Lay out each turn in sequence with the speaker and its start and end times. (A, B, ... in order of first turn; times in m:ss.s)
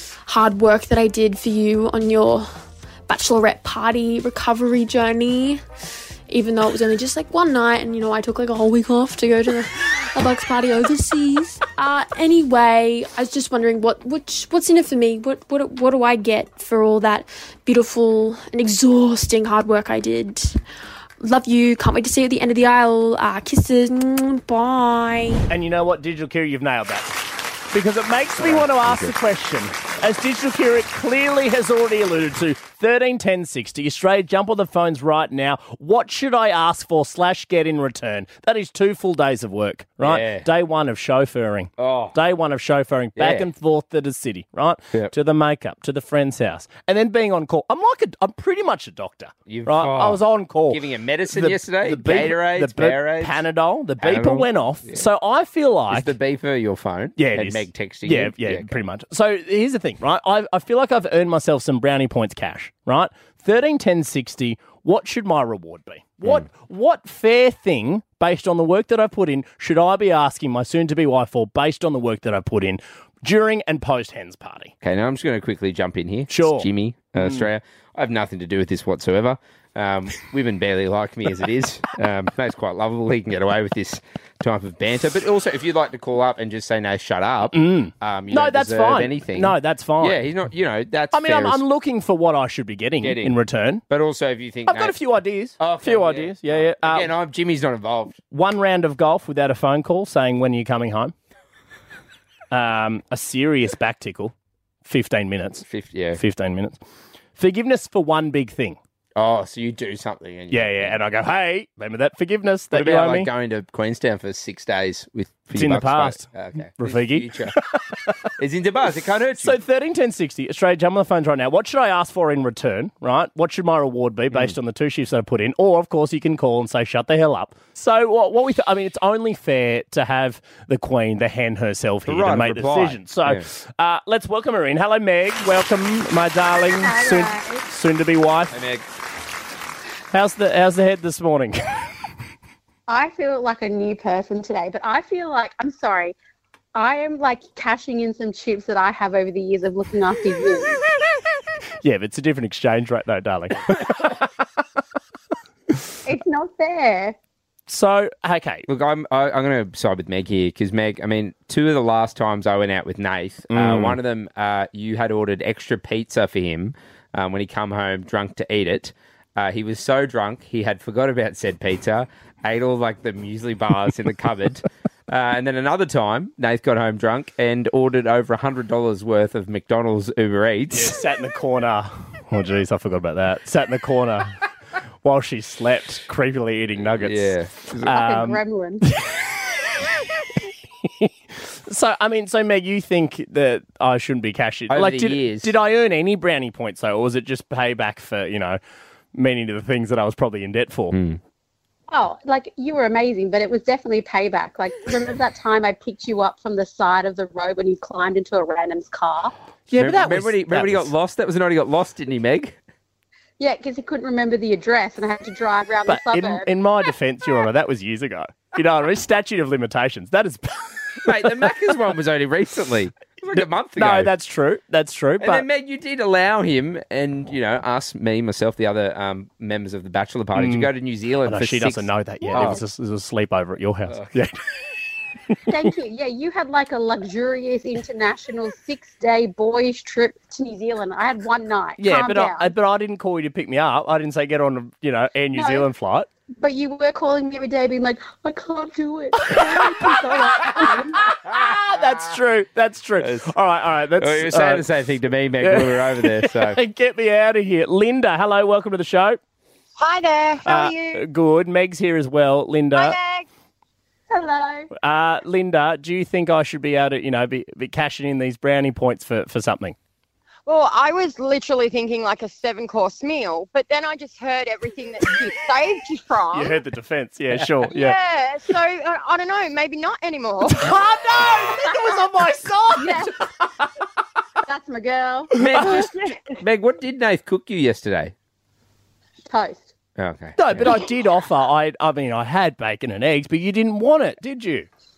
0:00.2-0:02.5 A
0:03.1-0:05.6 A
0:06.3-0:20.6 A
0:21.2-0:25.4 A
0:25.5-0:56.1 B
0:28.4-0:29.1 C
0:40.0-0:40.5 C
0:41.8-0:42.2 C
0:43.2-0:43.5 C
0:49.5-0:53.4 C
0:54.0-0:55.0 C
0:55.9-0:58.8 C
0:57.2-1:14.7 B
1:14.8-1:31.6 C
1:16.3-1:17.5 B
1:27.5-1:30.2 B
1:31.1-1:33.8 B
1:33.0-1:33.4 C
1:33.9-1:35.0 C
1:34.7-1:37.1 B
1:35.6-1:38.2 C
1:38.3-1:41.1 B
1:42.5-1:44.3 B
1:44.8-1:46.8 B
1:45.6-1:46.2 C
1:47.4-1:48.8 B
1:49.1-1:51.0 C
1:50.5-1:53.3 B
1:52.7-1:57.6 C
1:55.5-1:58.1 B
1:58.4-1:59.6 C
1:59.4-2:18.6 B
2:12.1-2:13.4 C
2:16.8-2:17.6 D
2:18.5-2:18.9 C
2:20.1-2:21.8 B
2:22.9-2:26.1 D
2:26.7-2:30.8 D
2:31.8-2:34.3 B
2:36.0-2:37.2 D
2:37.7-2:38.6 B
2:38.7-3:01.0 C
2:43.5-2:44.0 B
3:00.7-3:04.4 B
3:05.0-3:09.3 B
3:07.0-3:08.0 C
3:07.8-3:08.8 D
3:10.8-3:18.6 B
3:14.7-3:15.5 C
3:19.1-3:21.0 B
3:20.9-3:21.2 C
3:21.9-3:29.3 D
3:29.7-3:30.9 B
3:29.7-3:32.6 C
3:33.4-3:36.5 D
3:35.8-3:41.4 B
3:41.0-3:44.1 C
3:43.3-3:45.4 B
3:45.2-3:52.6 C
3:50.3-3:50.7 B
3:51.2-3:54.4 B
3:52.3-3:52.6 D
3:53.9-3:54.2 C
3:55.5-4:02.5 D
4:01.8-4:06.1 B
4:05.3-4:05.7 D
4:06.4-4:11.0 D
4:09.2-4:14.7 B
4:13.0-4:13.3 C
4:14.0-4:16.6 C
4:15.4-4:19.2 B
4:19.8-4:21.0 E
4:20.4-4:23.0 B
4:22.7-4:23.3 E
4:24.1-4:24.7 D
4:24.8-4:29.8 B
4:30.4-4:36.6 E
4:36.3-4:38.0 B
4:37.6-4:40.7 E
4:40.4-4:43.2 B
4:42.8-4:43.1 D
4:44.4-4:46.2 D
4:45.4-4:45.9 B
4:45.4-4:48.1 C
4:49.2-4:49.7 D
4:50.0-4:50.8 C
4:50.4-4:54.7 B